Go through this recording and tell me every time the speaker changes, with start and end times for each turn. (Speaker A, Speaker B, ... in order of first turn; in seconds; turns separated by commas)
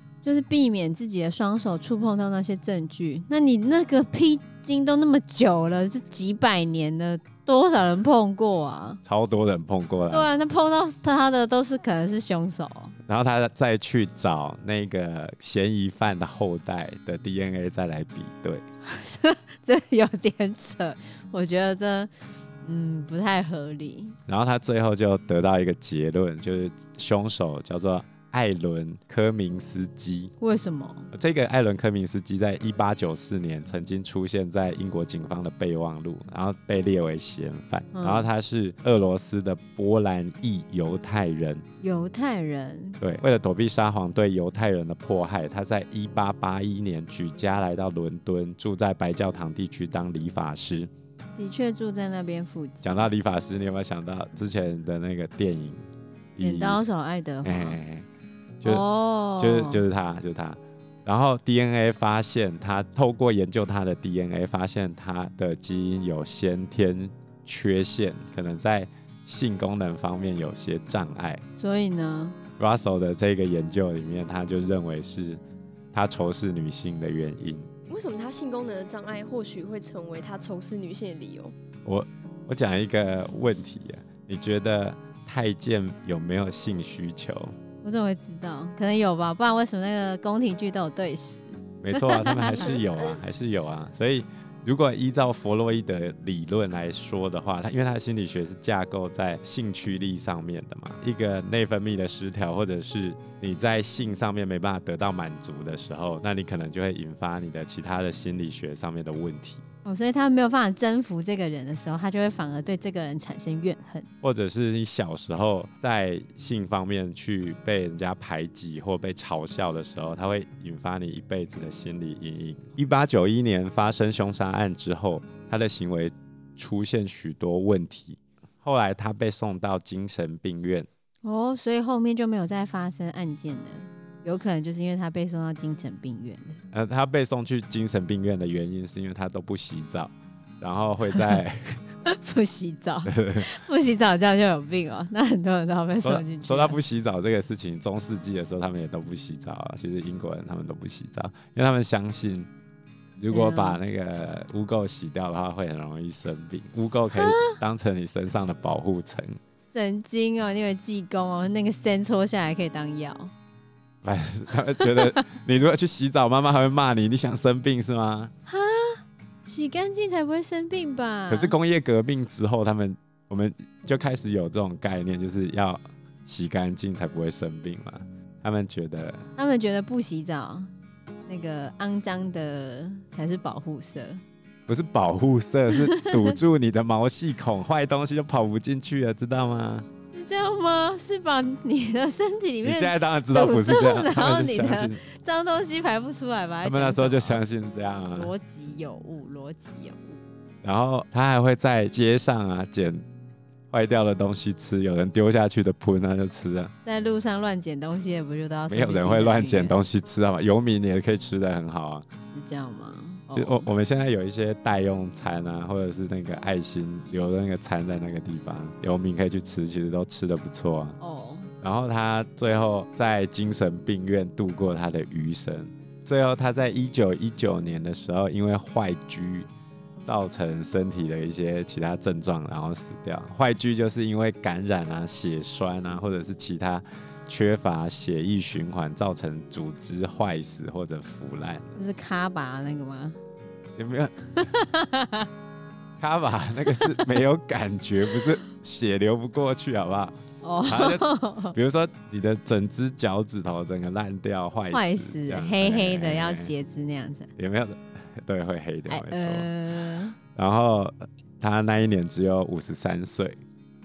Speaker A: 0.2-9.0, Speaker B: 9.0-10.3, Speaker A: 10.1-12.9, Speaker B: 13.1-18.6, Speaker A: 18.8-22.1, Speaker A: 22.6-24.2, Speaker B: 24.3-30.3, Speaker A: 30.4-31.1, Speaker B: 31.1-41.6, Speaker A: 37.9-38.3, Speaker A: 41.8-43.0, Speaker B: 43.0-50.9, Speaker A: 51.4-53.0, Speaker B: 52.8-55.8, Speaker B: 56.4-56.8, Speaker A: 56.4-57.8, Speaker B: 57.4-58.0, Speaker A: 58.6-59.9, Speaker B: 59.4-71.4, Speaker A: 71.6-72.4, Speaker B: 72.6-75.4, Speaker B: 75.9-77.7, Speaker C: 77.9-81.5, Speaker B: 81.8-87.5, Speaker A: 87.8-92.8, Speaker B: 91.8-109.6, Speaker A: 109.8-114.1, Speaker B: 114.2-130.9, Speaker A: 131.2-136.6, Speaker B: 136.7-141.8, Speaker A: 142.0-146.8, Speaker B: 143.1-143.5, Speaker B: 146.0-152.5, Speaker B: 153.2-159.4, Speaker A: 153.3-153.8, Speaker A: 157.1-157.6, Speaker A: 159.7-163.3, Speaker B: 164.0-168.3, Speaker A: 164.8-165.2, Speaker A: 168.5-171.5, Speaker B: 171.3-179.3, Speaker A: 179.3-180.7, Speaker A: 181.3-184.2, Speaker B: 184.7-189.9, Speaker A: 185.7-186.4, Speaker A: 190.1-197.4, Speaker B: 192.6-195.0, Speaker B: 196.6-198.3, Speaker A: 198.1-200.2, Speaker B: 200.6-203.0, Speaker B: 203.7-206.7, Speaker A: 206.8-209.8, Speaker B: 208.7-212.0, Speaker A: 212.3-213.7, Speaker B: 213.3-220.9, Speaker A: 221.0-221.5, Speaker B: 221.6-229.5, Speaker B: 230.0-241.7, Speaker A: 241.7-243.2, Speaker B: 243.8-244.6, Speaker A: 244.3-245.3, Speaker B: 246.0-250.1, Speaker A: 246.7-247.2, Speaker A: 250.4-251.6, Speaker B: 250.7-256.5, Speaker A: 254.7-257.3, Speaker B: 257.4-259.5, Speaker A: 258.9-260.1, Speaker B: 260.3-263.4